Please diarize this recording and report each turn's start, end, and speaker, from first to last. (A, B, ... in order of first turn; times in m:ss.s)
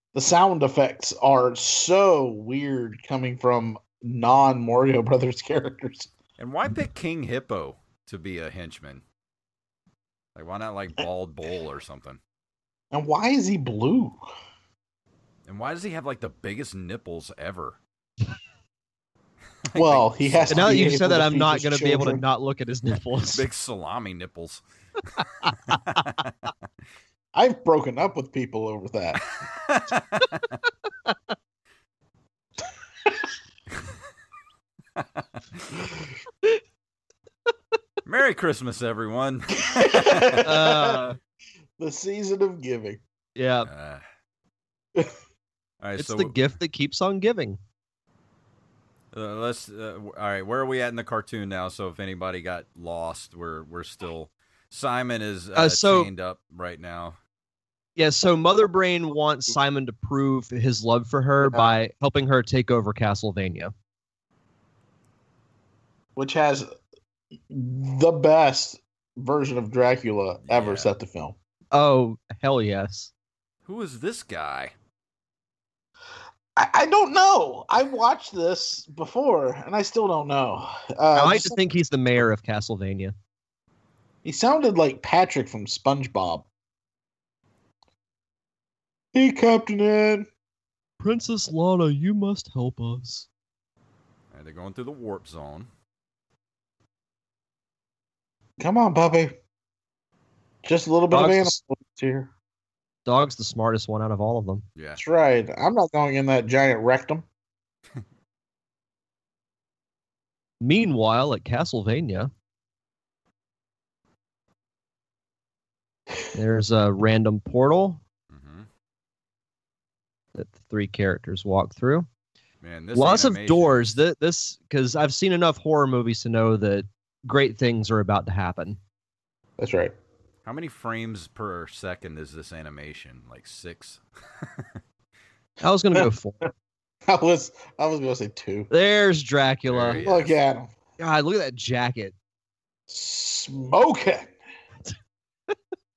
0:00.1-0:06.1 A
0:06.4-0:09.0 B
0:10.3-0:12.2 B
0:12.9-0:14.2 A
0:15.5-0:17.8 B
0:19.6-0:20.8 B
0:19.7-0:22.2 A
0:20.5-0:23.4 C
0:23.3-0:24.6 B
0:25.7-0:26.3 B
0:27.3-0:29.2 A
0:29.2-0:30.6 B
0:35.0-0:35.7 B
0:38.0-0:40.5 B
0:39.6-0:41.0 A
0:40.4-0:41.2 C
0:41.8-0:43.0 A
0:43.4-0:43.7 C
0:43.6-0:44.0 B
0:45.8-0:46.4 B
0:46.0-0:47.6 C
0:49.1-0:57.2 B
0:55.5-0:56.1 C
0:58.0-1:03.7 C
1:01.4-1:01.7 A
1:06.2-1:06.7 A
1:07.5-1:11.4 A
1:10.4-1:10.9 B
1:11.7-1:13.1 C
1:13.6-1:14.7 B
1:16.6-1:21.6 A
1:21.1-1:23.1 C
1:24.2-1:26.5 A
1:29.1-1:30.3 A
1:31.0-1:33.3 C
1:34.3-1:35.7 B
1:38.6-1:39.4 A
1:40.6-1:42.3 A
1:41.1-1:41.5 C
1:43.0-1:44.6 C
1:44.8-1:45.0 B
1:45.0-1:47.2 A
1:50.6-1:52.3 C
1:56.3-1:58.0 C
1:58.3-1:58.7 B
2:00.3-2:02.1 C
2:02.6-2:03.8 B
2:02.9-2:08.8 C
2:09.6-2:09.9 A
2:10.4-2:14.7 B
2:15.6-2:16.4 C
2:17.1-2:18.7 A
2:18.7-2:20.0 C
2:19.7-2:20.4 B
2:20.0-2:20.7 A
2:21.0-2:22.1 C
2:22.9-2:24.3 A